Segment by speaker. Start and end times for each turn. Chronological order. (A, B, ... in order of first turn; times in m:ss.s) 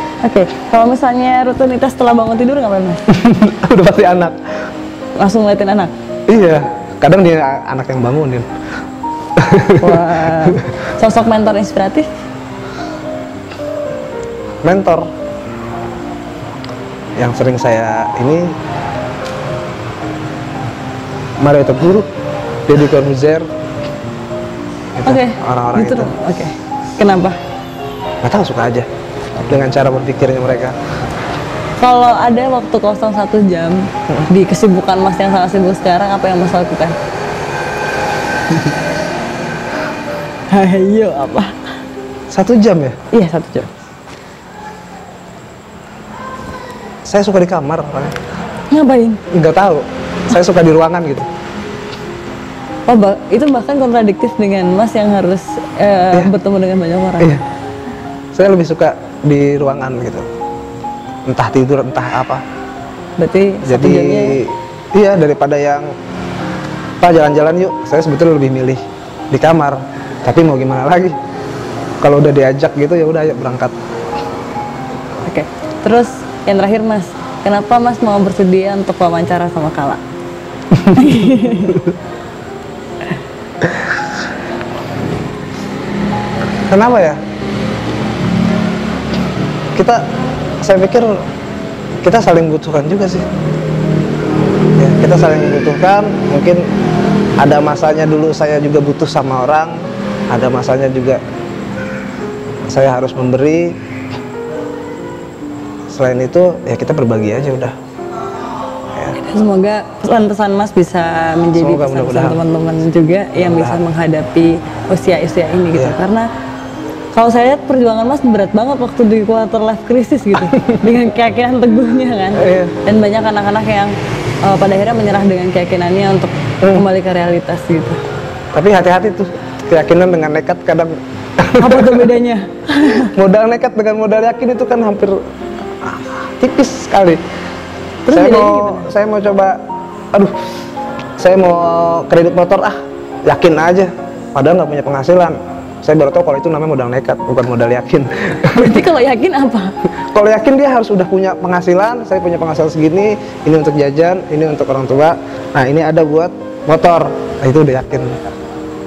0:00.2-0:03.0 A
0:03.1-0:04.4 B
0:05.2-0:05.9 A
0:06.3-0:08.5 B
0:09.4-0:10.6 B
0:09.8-0:12.1 A
0:14.6-0:15.1 B
0:17.2-0:18.5 B
0:21.4-0:22.1 B
0:22.7-0:23.5 B
0:24.9-0:26.1 B
0:25.0-0:27.4 A
0:28.2-0:28.9 B
0:29.5-0:30.7 B
0:31.8-0:37.0 A
0:40.5-0:41.5 A
0:42.3-0:43.0 B
0:43.1-0:43.7 A
0:47.0-0:48.2 B
0:48.7-0:49.2 A
0:49.3-0:51.3 B
0:52.9-0:57.4 A
0:58.3-1:00.2 B
1:01.3-1:02.4 B
1:03.2-1:04.4 A
1:03.6-1:05.9 B
1:07.0-1:11.1 B
1:12.0-1:13.7 B
1:15.2-1:20.0 A
1:20.8-1:21.8 A
1:26.7-1:27.2 B
1:29.7-1:30.0 B
1:30.6-1:31.2 B
1:32.0-1:33.2 B
1:34.8-1:36.6 B
1:37.4-1:39.8 B
1:40.3-1:41.2 B
1:42.7-1:43.8 B
1:45.9-1:47.7 B
1:49.1-1:56.2 A
1:51.5-1:52.4 B
1:53.4-1:53.8 B
1:57.1-2:03.9 A
2:00.4-2:00.8 B
2:02.3-2:02.7 B
2:04.4-2:08.0 A
2:06.6-2:06.9 B
2:08.5-2:12.1 B
2:11.6-2:13.1 A
2:13.1-2:15.2 B
2:15.8-2:17.2 B
2:18.0-2:18.9 A
2:18.1-2:19.6 B
2:21.2-2:28.8 B
2:28.5-2:29.7 A
2:30.1-2:38.2 B